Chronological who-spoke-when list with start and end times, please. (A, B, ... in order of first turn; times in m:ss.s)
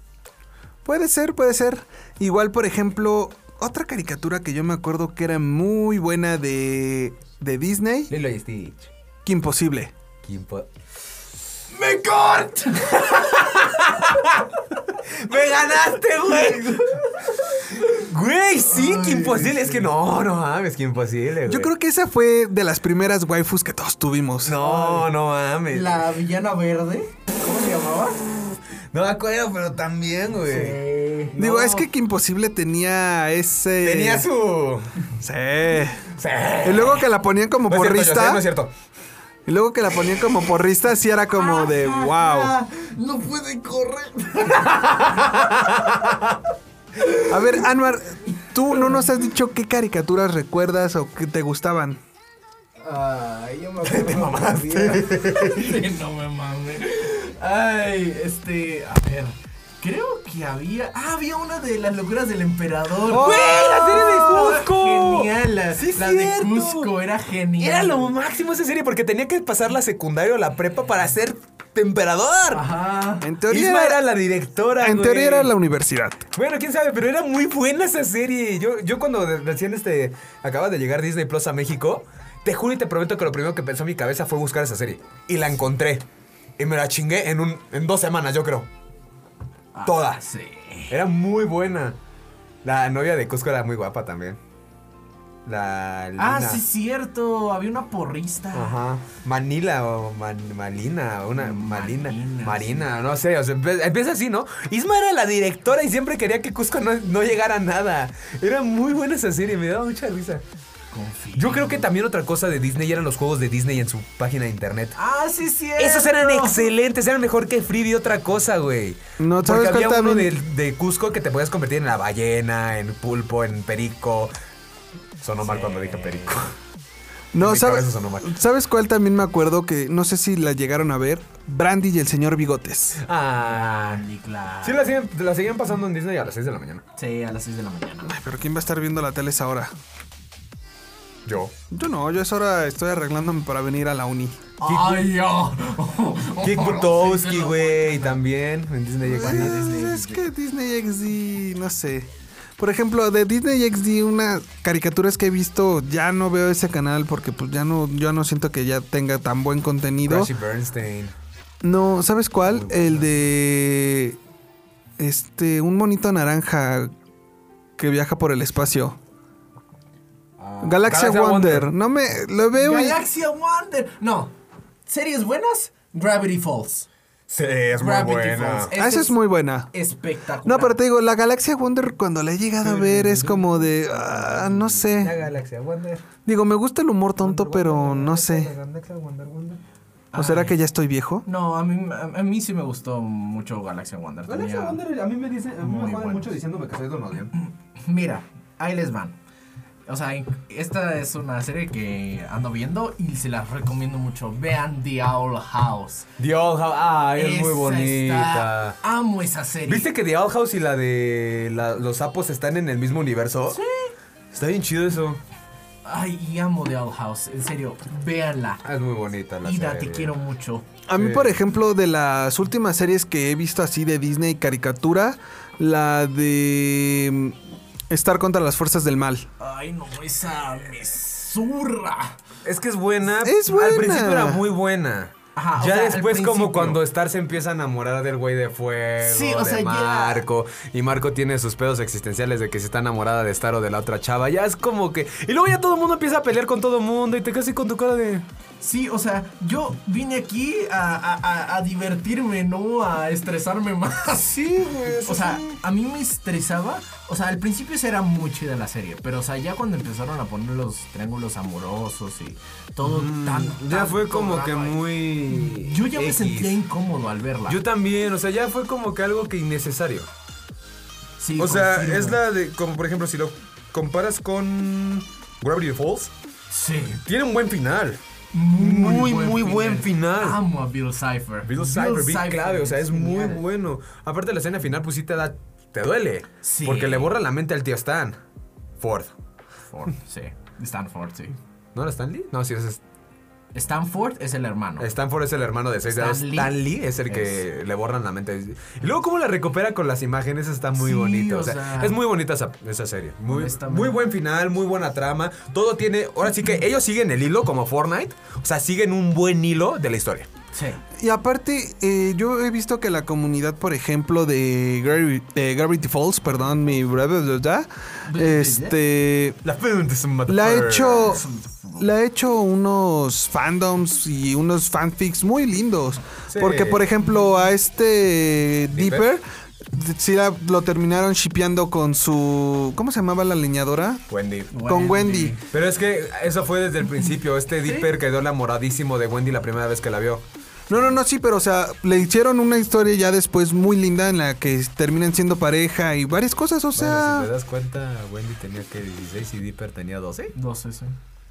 0:00.8-0:08.1 A
0:08.1-0:08.9 B
0:09.2-0:09.9 A
0:10.2-0:10.7 B
0:11.7-0:13.4 C
0:13.0-0:14.4 B
0:15.2-0:16.8 B
0:16.0-0:17.9 C
0:17.8-0:21.7 B
0:18.6-0:19.9 C
0:21.4-0:24.6 A
0:24.4-0:26.0 B
0:24.6-0:25.1 C
0:25.7-0:28.2 C
0:28.9-0:30.8 B
0:30.4-0:31.8 C
0:31.4-0:34.3 A
0:33.8-0:34.9 B
0:35.2-0:36.1 A
0:36.2-0:37.0 B
0:36.6-0:38.4 A
0:37.7-0:38.7 B
0:39.4-0:42.5 A
0:41.4-0:44.7 C
0:44.5-0:46.4 B
0:47.3-0:52.0 A
0:52.8-1:08.1 C
0:53.8-0:55.8 B
1:03.1-1:04.1 A
1:03.1-1:06.9 B
1:07.6-1:12.6 B
1:12.5-1:13.2 C
1:13.2-1:14.0 A
1:13.5-1:15.5 B
1:14.8-1:16.2 A
1:16.3-1:26.0 B
1:26.6-1:28.7 B
1:29.7-1:30.9 C
1:29.8-1:30.2 B
1:30.9-1:32.0 B
1:32.6-1:34.4 B
1:35.4-1:36.6 B
1:36.2-1:38.8 C
1:38.5-1:50.4 B
1:41.4-1:42.9 C
1:50.9-1:51.8 C
1:51.4-1:55.0 B
1:55.0-1:56.7 C
1:55.8-2:04.3 B
1:59.2-2:00.3 A
2:05.2-2:06.5 B
2:05.4-2:06.4 C
2:07.3-2:13.0 A
2:07.4-2:08.3 B
2:13.0-2:14.0 B
2:13.5-2:14.9 C
2:14.6-2:16.8 B
2:17.0-2:18.1 C
2:18.0-2:19.7 A
2:21.2-2:21.5 B
2:21.7-2:24.4 A
2:24.6-2:28.2 C
2:24.6-2:25.1 B
2:26.4-2:29.8 B
2:29.0-2:40.3 A
2:29.2-2:30.2 C
2:40.0-2:41.1 B
2:41.6-2:44.2 A
2:42.4-2:43.1 B
2:45.0-2:46.9 A
2:47.8-2:49.0 A
2:50.4-2:50.9 C
2:50.6-2:53.0 A
2:50.8-2:51.7 B
2:52.6-2:54.3 C
2:54.8-2:56.9 C
2:57.3-2:58.7 B
2:57.8-2:59.2 C
2:58.7-2:59.7 A
2:59.7-3:00.8 C
3:00.4-3:05.2 A
3:02.6-3:06.0 B
3:06.2-3:08.5 A
3:07.2-3:09.6 B
3:10.1-3:10.5 C
3:10.2-3:11.2 A
3:11.2-3:14.8 C
3:14.3-3:17.3 B
3:15.6-3:16.3 C
3:17.4-3:19.2 C
3:19.9-3:26.1 C
3:26.2-3:28.8 B
3:27.2-3:29.9 C
3:29.7-3:33.6 B
3:33.5-3:33.9 C
3:34.3-3:35.2 B
3:35.8-3:38.6 C
3:38.6-3:40.1 B
3:39.4-3:40.6 C
3:40.9-3:47.4 A
3:40.9-3:41.4 B
3:47.9-3:49.3 A
3:49.4-3:52.2 C
3:52.4-4:08.2 B
3:53.2-3:54.4 A
3:55.4-3:56.8 C
3:59.0-4:00.2 C
4:08.6-4:14.4 C
4:14.4-4:15.5 B
4:15.0-4:27.6 C
4:22.8-4:26.6 B
4:27.5-4:30.1 B
4:31.2-4:32.2 C
4:31.4-4:36.1 B
4:36.5-4:37.0 C
4:37.0-4:38.0 B
4:38.3-4:43.4 C
4:38.6-4:40.4 B
4:41.4-4:48.2 B
4:46.4-4:47.1 C
4:48.8-4:49.1 B
4:49.7-4:51.4 C
4:51.7-4:52.8 B
4:53.5-4:54.9 C
4:54.8-5:10.3 B
4:55.9-4:57.4 C
5:00.8-5:02.0 C
5:03.3-5:04.0 C
5:10.5-5:10.8 C
5:11.0-5:19.4 A
5:18.0-5:18.8 C
5:19.4-5:21.2 B
5:20.3-5:21.2 A
5:21.0-5:21.9 C
5:21.8-5:29.2 A
5:26.3-5:26.8 B
5:28.7-5:29.0 B
5:29.7-5:34.0 A
5:34.1-5:34.5 B
5:34.5-5:35.4 C
5:34.6-5:35.4 A
5:35.5-5:40.2 B
5:37.6-5:37.9 C
5:40.7-5:47.3 A
5:46.7-5:50.3 B
5:50.3-5:51.0 C